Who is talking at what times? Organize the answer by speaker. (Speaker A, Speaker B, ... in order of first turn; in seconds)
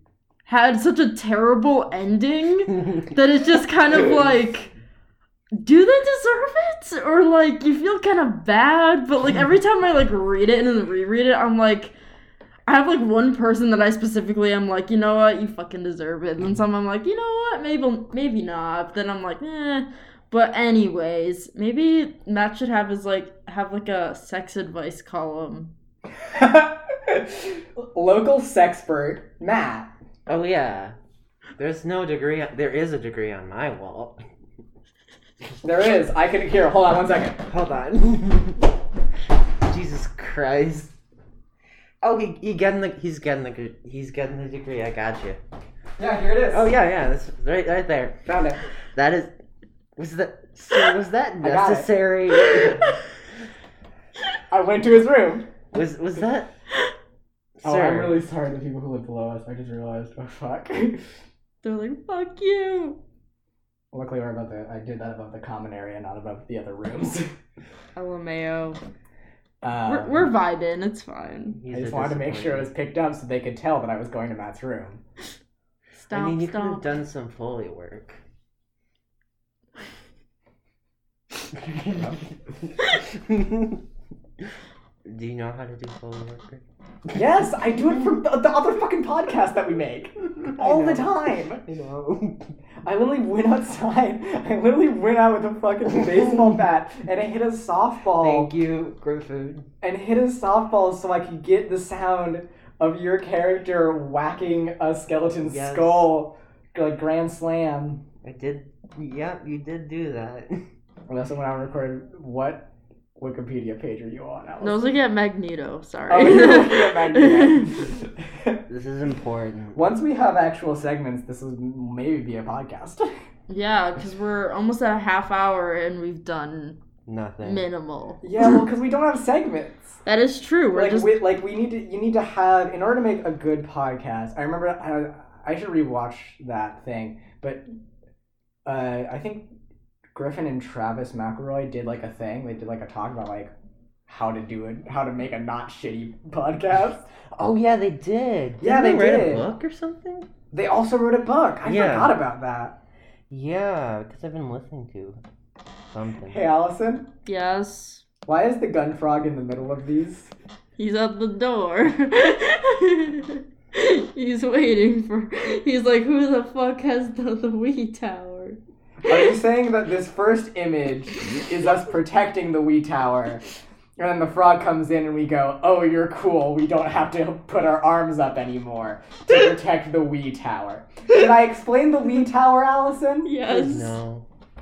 Speaker A: 0.5-4.7, 5.5-11.9, 12.7-25.7, 61.6-63.0, 68.0-68.8, 69.8-71.6, 76.0-76.8, 114.6-117.7, 123.5-126.8, 127.4-128.2, 130.1-131.2, 157.2-158.0, 160.8-168.6, 183.2-183.9
Speaker B: 26.3-29.9, 35.6-37.4, 46.0-46.7, 48.2-48.6, 51.4-51.9, 54.5-55.5, 57.6-61.1, 63.9-67.3, 69.6-70.3, 71.7-75.0, 81.8-82.2, 87.1-91.6, 92.8-98.5, 99.8-108.0, 111.1-114.9, 116.1-118.6, 119.7-123.1, 128.2-130.0, 130.7-137.6, 138.7-139.5, 140.1-143.5, 144.1-147.1, 148.6-149.5, 150.5-152.8, 156.3-157.1, 158.3-160.3, 169.1-173.4, 174.0-183.3
Speaker C: 30.3-30.9, 31.6-34.2, 37.5-38.6, 39.6-41.0, 42.0-45.4, 46.5-48.2, 48.9-49.3, 50.0-52.9, 55.7-56.5, 57.6-58.2, 71.6-72.7, 76.1-78.2, 81.6-82.1, 83.1-83.8, 85.0-86.6, 90.4-92.5, 98.2-99.7, 105.4-106.1, 108.2-110.6, 118.7-119.8, 127.0-127.6, 147.3-150.3, 151.6-152.2, 153.3-155.2, 155.9-156.4, 183.4-184.2